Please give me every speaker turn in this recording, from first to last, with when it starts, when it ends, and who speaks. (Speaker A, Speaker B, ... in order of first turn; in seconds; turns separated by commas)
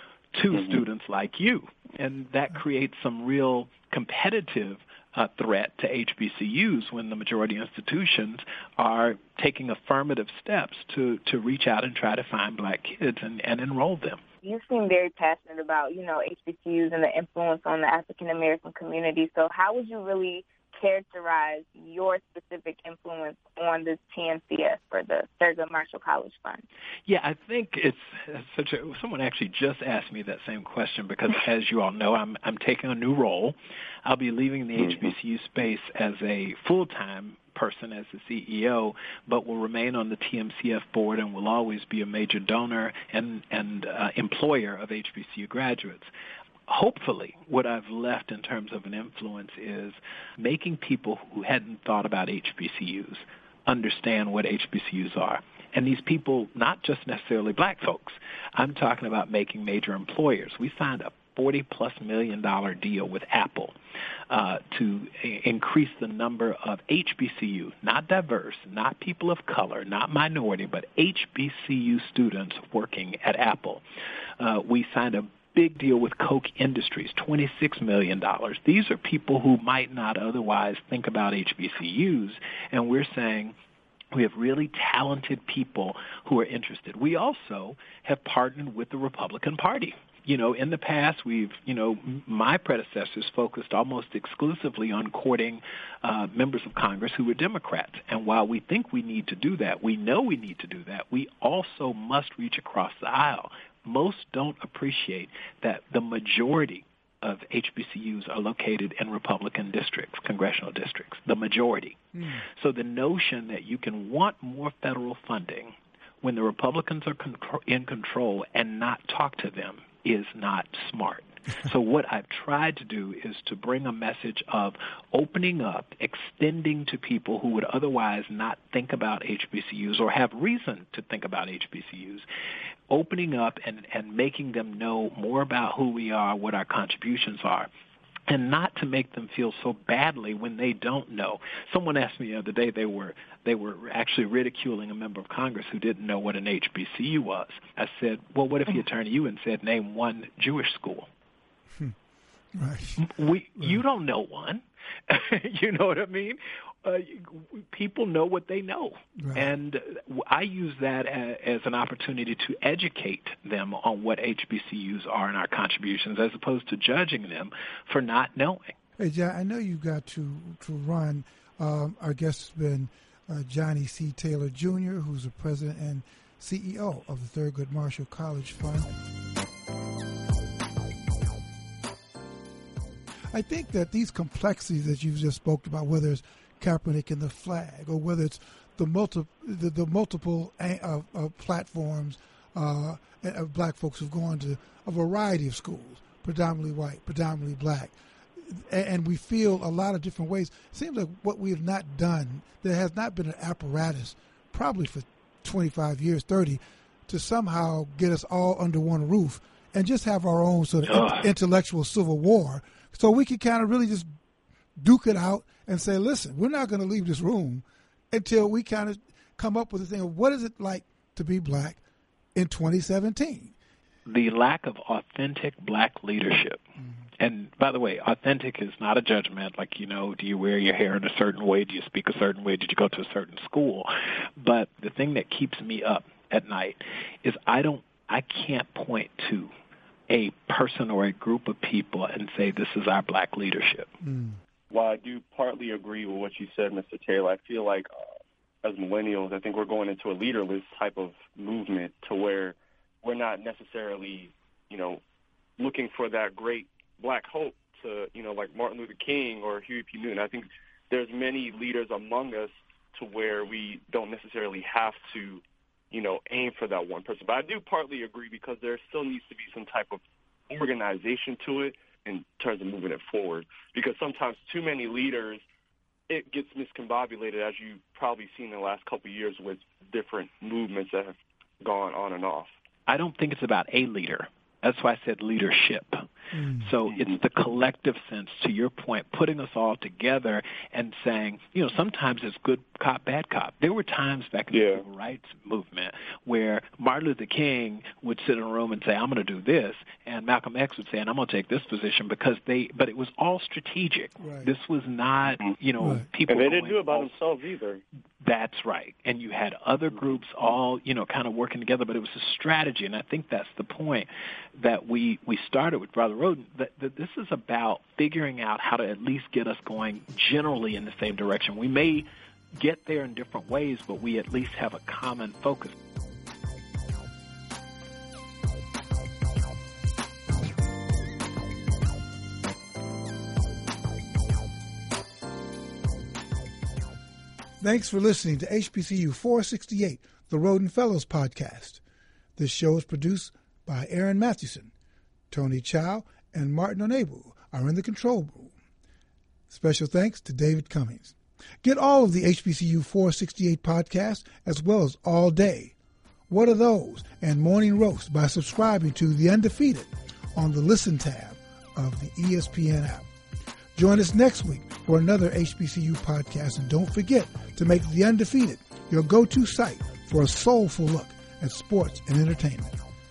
Speaker A: 0.3-14.2, Speaker B: 14.4-26.6, Speaker A: 27.1-46.1, Speaker A: 46.7-63.8, Speaker A: 64.3-73.8, Speaker A: 74.4-83.5, Speaker A: 84.1-132.2, Speaker A: 132.9-137.7, Speaker A: 138.3-151.1, Speaker C: 152.5-153.1, Speaker A: 153.0-168.7, Speaker C: 159.2-159.5, Speaker C: 169.0-178.9, Speaker C: 183.3-214.1, Speaker A: 210.8-211.3, Speaker C: 214.8-221.8, Speaker C: 222.3-223.5, Speaker A: 224.1-226.6, Speaker A: 227.2-239.5, Speaker A: 240.1-243.9, Speaker C: 244.0-244.4, Speaker D: 244.7-247.9, Speaker D: 248.6-255.0, Speaker D: 255.6-275.4, Speaker D: 276.1-282.5, Speaker A: 282.9-307.1, Speaker C: 286.3-286.7, Speaker D: 294.5-294.8, Speaker C: 304.2-304.5, Speaker C: 305.8-306.1, Speaker D: 306.3-307.8, Speaker A: 308.2-325.7, Speaker C: 337.6-341.8, Speaker C: 342.4-344.7, Speaker C: 345.3-348.5, Speaker C: 349.5-355.7, Speaker C: 356.3-363.1, Speaker C: 363.7-372.7